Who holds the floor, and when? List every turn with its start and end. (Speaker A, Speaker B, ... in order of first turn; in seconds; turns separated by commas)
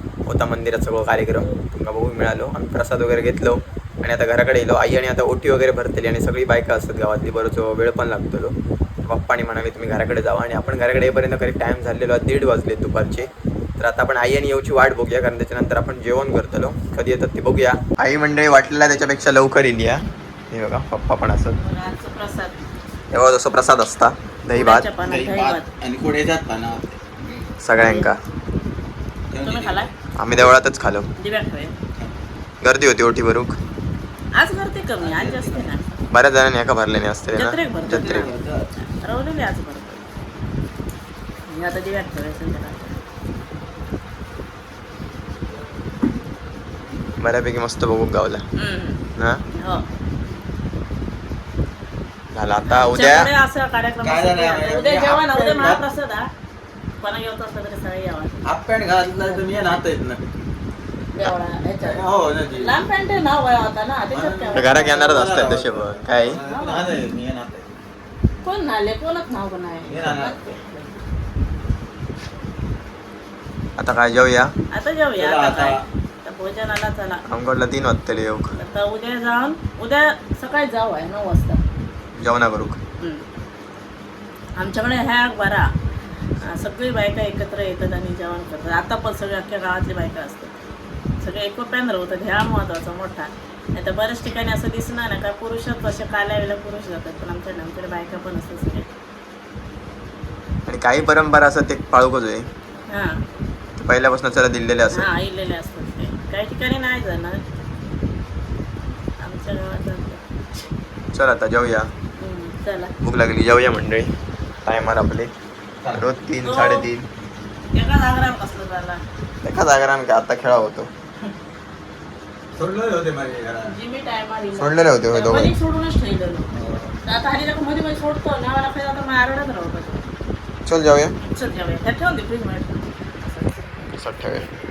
Speaker A: 0.2-21.6, Speaker B: 21.5-22.6, Speaker A: 23.1-24.9, Speaker B: 24.5-25.7, Speaker C: 25.0-27.0, Speaker A: 27.6-28.2, Speaker B: 27.8-28.1, Speaker C: 29.3-29.9, Speaker B: 29.4-29.9, Speaker A: 30.2-31.1, Speaker B: 31.2-31.7, Speaker A: 32.6-33.6, Speaker B: 34.3-36.0, Speaker C: 35.0-35.7, Speaker A: 36.1-38.2, Speaker B: 37.3-40.0, Speaker C: 37.8-38.7, Speaker B: 41.5-43.0, Speaker A: 47.2-48.4, Speaker B: 48.6-49.0, Speaker A: 49.2-49.4, Speaker B: 49.5-49.9, Speaker A: 52.3-53.3, Speaker B: 52.7-56.2, Speaker C: 54.0-55.8, Speaker B: 57.0-58.4, Speaker C: 58.4-60.3, Speaker B: 59.2-59.5, Speaker B: 61.1-65.2, Speaker C: 61.8-62.8, Speaker C: 64.1-67.7, Speaker A: 64.5-66.4, Speaker B: 66.4-67.1, Speaker B: 68.4-70.9, Speaker C: 69.9-70.6, Speaker A: 73.8-74.5, Speaker B: 74.7-77.2, Speaker C: 75.2-75.8, Speaker A: 77.3-78.5, Speaker B: 78.5-81.6, Speaker A: 82.2-82.8, Speaker B: 83.0-83.2, Speaker B: 84.5-85.7, Speaker B: 86.4-90.5, Speaker B: 91.2-98.9, Speaker A: 100.7-102.5, Speaker B: 102.9-103.2, Speaker A: 103.8-105.1, Speaker B: 104.9-107.4, Speaker B: 109.2-110.2, Speaker A: 111.1-111.9, Speaker B: 112.2-112.9, Speaker A: 113.0-114.1, Speaker A: 114.6-115.3, Speaker A: 115.9-117.0, Speaker B: 116.4-116.9, Speaker B: 117.7-119.0, Speaker A: 119.4-120.9, Speaker C: 122.5-123.7, Speaker B: 123.7-126.5, Speaker A: 124.5-125.5, Speaker C: 126.5-126.9, Speaker B: 127.0-130.1, Speaker A: 130.7-131.1, Speaker B: 131.2-133.8, Speaker A: 133.9-134.5